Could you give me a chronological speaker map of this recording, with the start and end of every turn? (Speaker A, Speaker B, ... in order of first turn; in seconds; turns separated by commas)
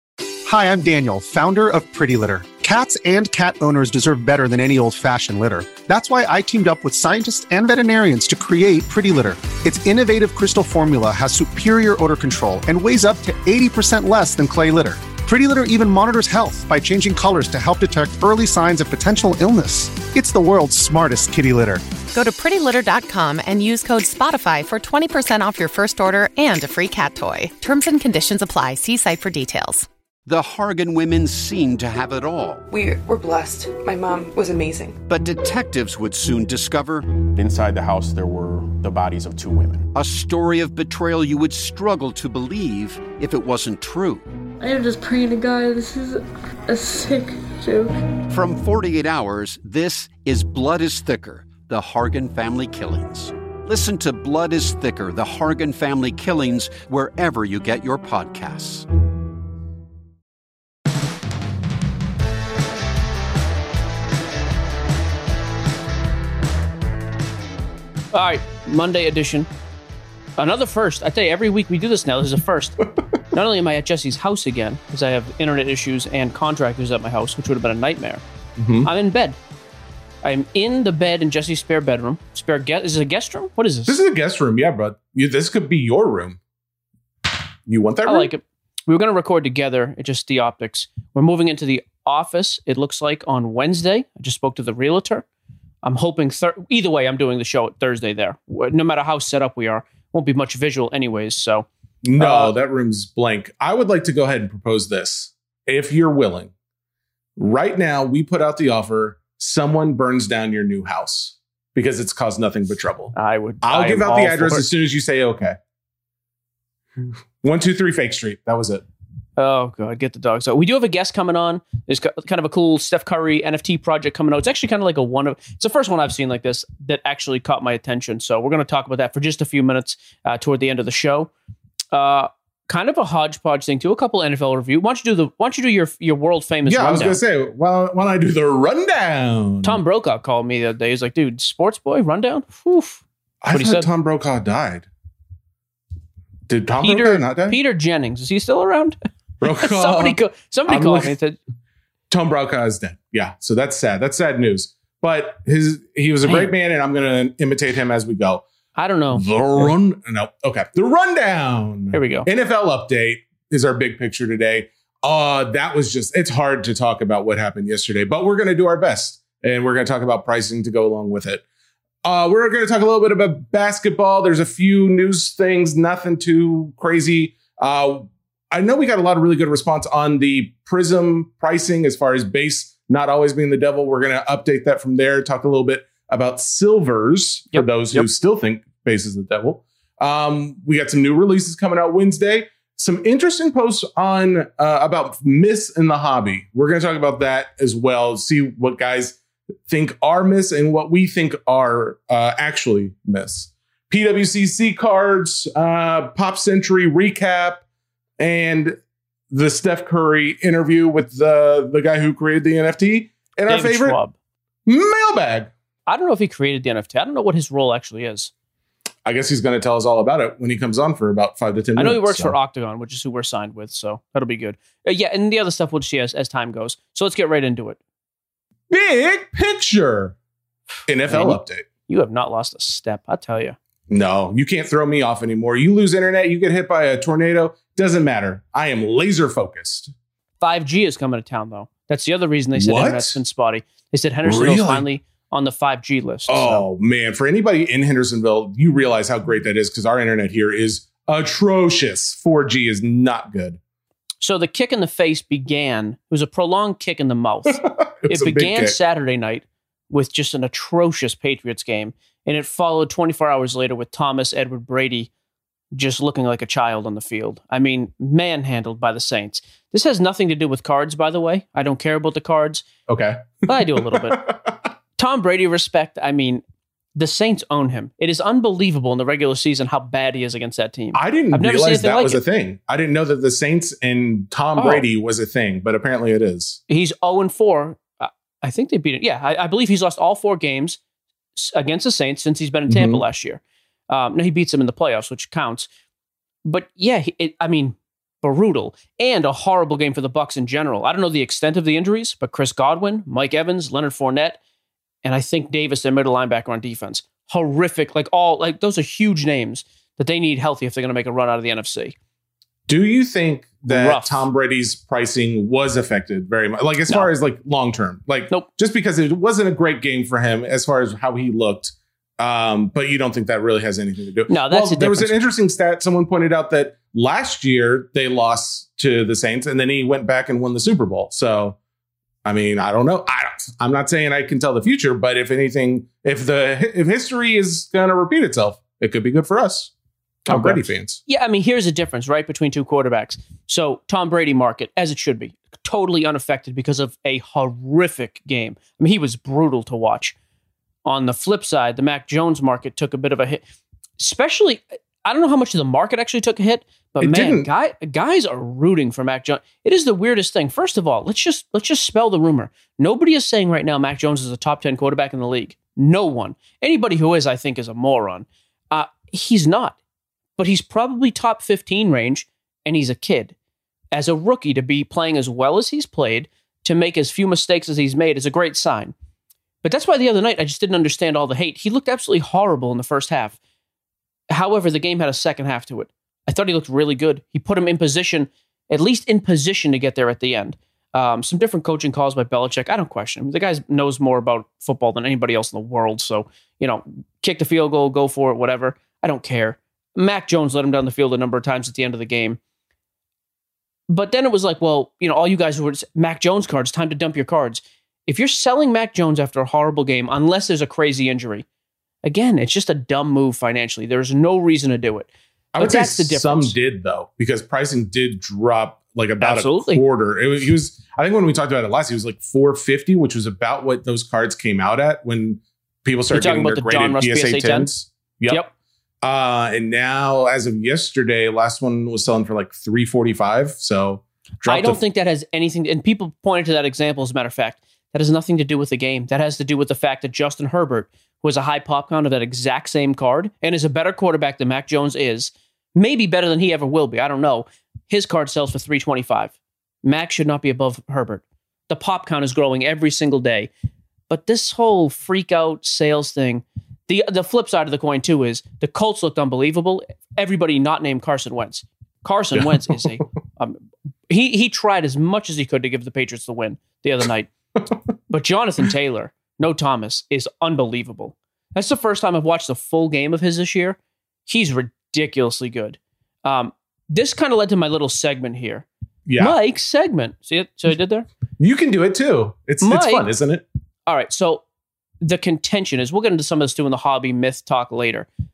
Speaker A: 0.5-21.8, Speaker B: 22.1-29.9, Speaker C: 30.3-32.7, Speaker D: 32.7-35.0, Speaker C: 35.1-37.1, Speaker E: 37.4-39.9, Speaker C: 39.9-44.2, Speaker F: 44.6-48.0, Speaker C: 48.3-58.9, Speaker G: 68.1-69.5, Speaker G: 70.4-72.8, Speaker G: 73.3-78.2, Speaker H: 78.6-78.9, Speaker G: 78.8-79.4, Speaker G: 80.2-84.0, Speaker H: 83.9-86.4, Speaker H: 87.7-88.3, Speaker G: 88.0-95.2, Speaker G: 95.8-102.5, Speaker H: 102.0-106.5, Speaker H: 107.4-115.6, Speaker G: 113.1-114.7, Speaker H: 117.4-118.8, Speaker G: 119.4-131.3, Speaker G: 131.9-137.2, Speaker H: 136.7-139.8, Speaker G: 139.6-143.9, Speaker H: 143.4-144.9, Speaker H: 146.5-147.6, Speaker G: 146.8-149.0, Speaker H: 149.4-151.1, Speaker G: 149.6-151.4, Speaker H: 152.1-158.5, Speaker G: 156.2-156.5, Speaker G: 158.8-159.7, Speaker H: 159.1-171.4, Speaker G: 161.9-162.3, Speaker H: 172.0-207.6, Speaker G: 187.5-188.1, Speaker H: 208.2-208.8, Speaker H: 209.3-214.0, Speaker G: 213.5-214.2, Speaker H: 214.7-215.5, Speaker G: 215.9-218.3, Speaker H: 219.1-222.3, Speaker G: 221.8-227.8, Speaker H: 228.7-230.2, Speaker H: 230.9-231.7, Speaker G: 231.1-233.6, Speaker H: 233.9-239.9, Speaker G: 240.4-246.7, Speaker H: 242.6-243.2, Speaker H: 244.2-244.9, Speaker H: 246.3-253.6, Speaker G: 254.2-265.1, Speaker H: 257.6-258.8, Speaker G: 265.7-272.6, Speaker H: 272.9-274.7, Speaker G: 273.5-274.2, Speaker G: 275.0-276.4, Speaker G: 276.9-282.2, Speaker H: 280.9-286.6, Speaker G: 284.6-284.9, Speaker G: 286.7-290.8, Speaker G: 291.4-295.7, Speaker H: 292.7-293.0, Speaker G: 296.4-304.4, Speaker G: 305.0-311.9, Speaker H: 312.7-331.6, Speaker G: 313.7-314.3, Speaker G: 324.3-325.2, Speaker H: 332.2-339.7, Speaker H: 340.3-341.0, Speaker G: 340.3-350.1, Speaker G: 350.9-353.4, Speaker G: 354.0-369.8, Speaker H: 357.0-357.5, Speaker G: 370.4-373.3, Speaker G: 373.9-378.9, Speaker G: 379.6-383.4, Speaker G: 384.3-402.4, Speaker G: 403.9-411.4, Speaker G: 412.0-416.6, Speaker H: 415.5-428.4, Speaker G: 419.2-419.8, Speaker G: 426.1-427.7, Speaker H: 429.0-434.8, Speaker G: 434.5-453.5, Speaker G: 454.1-467.3, Speaker H: 462.3-462.9, Speaker G: 468.1-478.7, Speaker H: 479.1-479.4, Speaker G: 479.2-481.1, Speaker H: 481.4-483.5, Speaker G: 482.6-483.1, Speaker G: 483.9-484.4, Speaker G: 485.0-488.1